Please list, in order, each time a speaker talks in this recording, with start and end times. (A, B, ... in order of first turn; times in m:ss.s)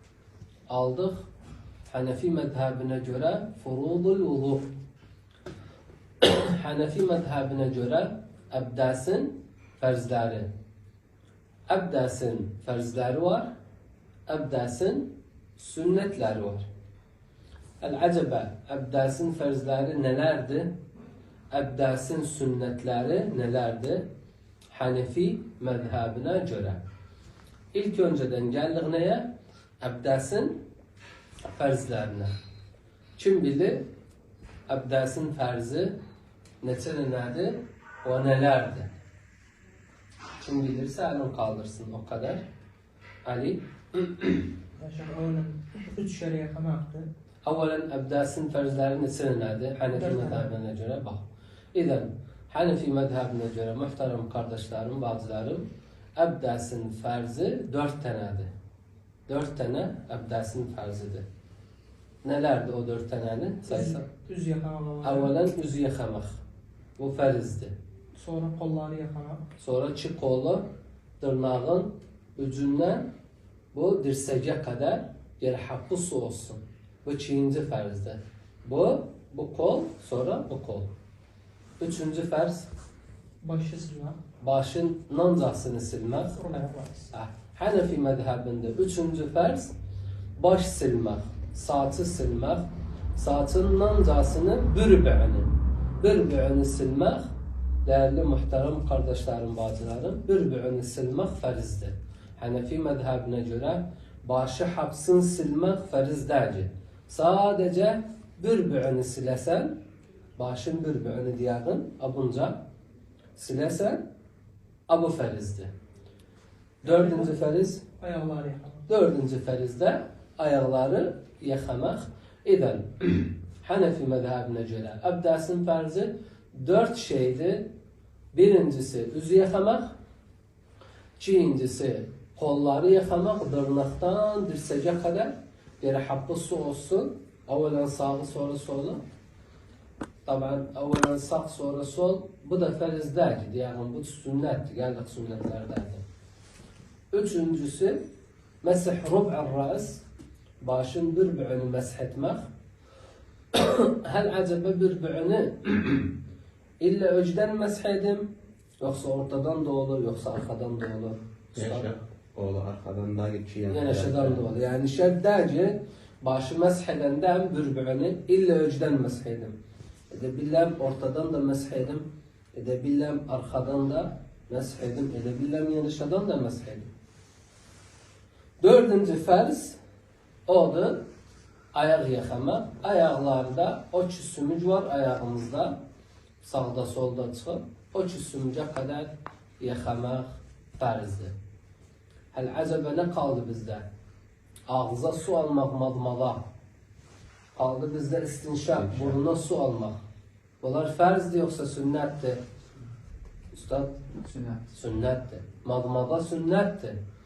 0:00.7-0:01.2 A
0:01.9-0:04.7 A
0:06.2-0:10.5 A
0:11.7-0:13.4 A
0:14.3-0:16.6 A
0:17.8-0:20.7 A
0:21.5-0:24.0 A
0:24.7-0:26.8 A
0:27.7-0:29.2 A
0:29.8-0:30.6 A
0:31.5-0:32.3 A
0:33.2-0:33.8 A
0:34.7-0:36.0 A
0:36.6-0:38.9 A
0:40.4-0:42.4 A
0:43.2-0:44.4 A
0:44.8-0:47.1 B
0:47.4-0:55.6 A
0:49.9-0:50.5 B
0:56.2-0:58.5 A
0:59.3-1:01.2 A
1:02.2-1:04.0 A
1:03.7-1:05.3 B
1:05.0-1:06.4 A
1:07.0-1:07.7 A
1:08.2-1:09.4 B
1:09.6-1:10.6 A
1:11.2-1:13.1 A
1:13.7-1:20.9 A
1:21.8-1:22.7 A
1:23.4-1:24.2 B
1:24.4-1:26.4 A
1:26.3-1:27.1 B
1:27.1-1:29.7 A
1:30.4-1:37.3 A
1:37.8-1:49.7 A
1:50.4-1:52.6 A
1:53.4-1:54.0 A
1:54.9-1:55.7 A
1:56.8-1:57.8 A
1:56.8-1:57.3 B
1:58.0-1:58.8 B
1:58.9-2:07.6 A
2:08.3-2:09.9 A
2:11.2-2:19.0 A
2:20.2-2:26.0 A
2:27.1-2:28.0 A
2:28.6-2:30.0 A
2:30.6-2:32.5 A
2:33.5-2:36.1 A
2:36.8-2:38.3 A
2:38.8-2:41.9 A
2:41.5-2:44.4 C
2:43.7-2:49.5 A
2:50.1-2:56.9 A
2:58.6-2:59.8 A
3:00.5-3:01.0 A
3:01.7-3:05.8 A
3:06.4-3:11.3 A
3:12.3-3:13.8 A
3:14.7-3:16.4 A
3:17.5-3:20.0 A
3:18.8-3:19.2 C
3:20.6-3:22.4 A
3:23.5-3:24.0 A
3:24.7-3:27.0 A